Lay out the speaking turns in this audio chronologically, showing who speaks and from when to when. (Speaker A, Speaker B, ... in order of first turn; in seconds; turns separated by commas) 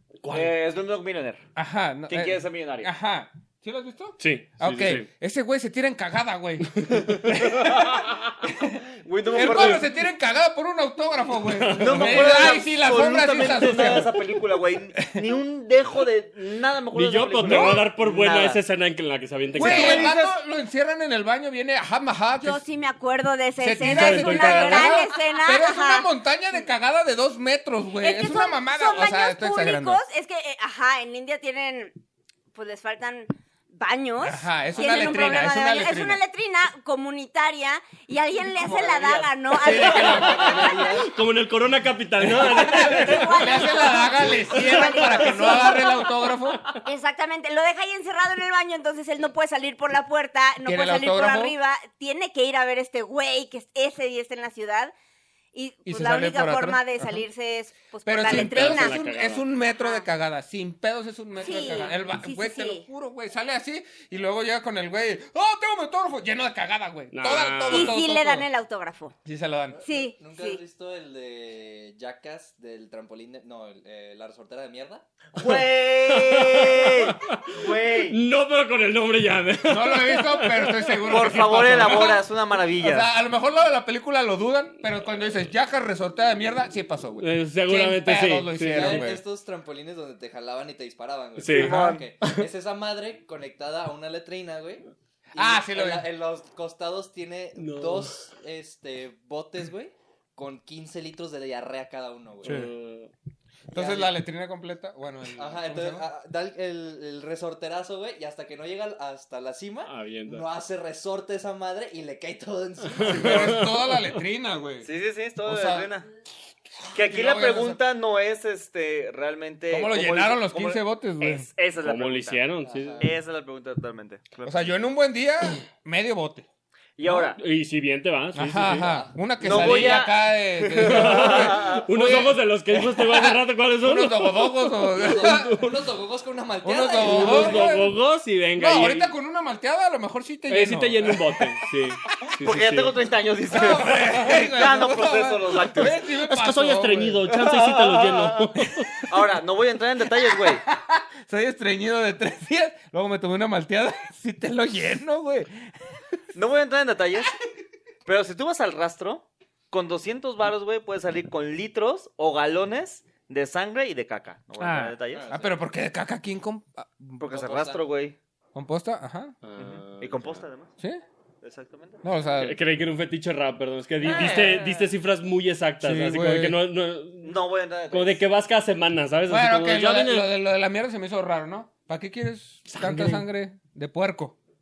Speaker A: 0.2-0.5, Speaker B: 0.3-1.4, Speaker C: 1.5-8.8, Speaker B: 2.1-2.9, Speaker A: 4.2-5.0, Speaker A: 6.7-7.4, Speaker B: 7.8-9.8, Speaker C: 9.3-14.2, Speaker A: 9.4-9.8, Speaker A: 11.4-12.6, Speaker B: 11.8-18.6, Speaker A: 16.9-20.1, Speaker C: 17.4-17.9, Speaker B: 19.5-20.3, Speaker C: 19.5-22.6, Speaker D: 22.4-26.1, Speaker C: 23.6-30.0, Speaker A: 23.8-25.0, Speaker D: 28.0-31.9, Speaker D: 32.5-40.6, Speaker C: 34.2-36.2, Speaker B: 38.6-39.2, Speaker E: 38.8-41.1, Speaker C: 39.5-41.0, Speaker A: 40.9-43.8, Speaker C: 42.2-46.6, Speaker D: 42.5-46.1, Speaker A: 44.5-45.9, Speaker D: 46.8-54.9, Speaker C: 50.6-51.5, Speaker D: 55.5-59.0, Speaker C: 55.9-57.2, Speaker C: 58.0-68.5, Speaker A: 58.2-59.4, Speaker D: 59.8-60.0, Speaker D: 61.4-62.8, Speaker A: 67.1-68.0, Speaker D: 67.7-69.1, Speaker C: 69.2-69.8, Speaker E: 69.8-75.0, Speaker D: 69.8-70.6, Speaker B: 75.3-78.2, Speaker A: 75.4-82.2, Speaker C: 79.6-82.2, Speaker B: 81.1-83.1, Speaker C: 82.8-89.2, Speaker A: 87.2-89.1, Speaker E: 88.7-102.6, Speaker A: 91.4-92.5, Speaker B: 91.5-92.0, Speaker C: 91.6-92.0, Speaker C: 95.3-96.1, Speaker A: 97.6-98.3, Speaker A: 102.4-103.1, Speaker C: 102.4-102.7, Speaker E: 103.7-104.1, Speaker C: 103.7-106.0, Speaker E: 105.4-113.7, Speaker A: 109.8-110.4, Speaker A: 112.9-114.1, Speaker C: 113.0-114.9, Speaker B: 114.8-116.1, Speaker C: 115.4-115.9, Speaker C: 116.8-117.8, Speaker B: 116.9-122.4, Speaker C: 119.7-121.5, Speaker A: 121.8-123.0, Speaker E: 122.6-123.2, Speaker B: 123.0-124.7, Speaker C: 124.4-126.5, Speaker B: 127.0-127.4, Speaker A: 127.1-128.9, Speaker C: 128.3-135.5, Speaker E: 128.7-129.6, Speaker B: 129.4-132.2, Speaker A: 130.8-135.7, Speaker E: 134.9-137.7, Speaker C: 136.6-137.9, Speaker A: 137.0-139.1, Speaker C: 138.6-141.5, Speaker A: 140.5-143.0, Speaker B: 142.4-146.0, Speaker C: 143.5-147.2, Speaker A: 146.2-149.0, Speaker B: 147.3-148.5, Speaker B: 149.1-150.6, Speaker C: 150.2-155.7, Speaker B: 156.3-157.3, Speaker B: 158.1-165.3, Speaker C: 164.6-167.3, Speaker E: 165.1-165.6, Speaker B: 167.2-168.2, Speaker E: 167.3-167.8, Speaker C: 168.5-169.3, Speaker A: 169.4-170.4, Speaker B: 169.6-170.7, Speaker B: 171.4-172.0, Speaker C: 172.0-172.6, Speaker A: 172.4-180.3, Speaker B: 174.0-174.9, Speaker C: 175.8-176.6, Speaker B: 177.2-178.2, Speaker C: 179.3-184.4, Speaker A: 182.7-183.2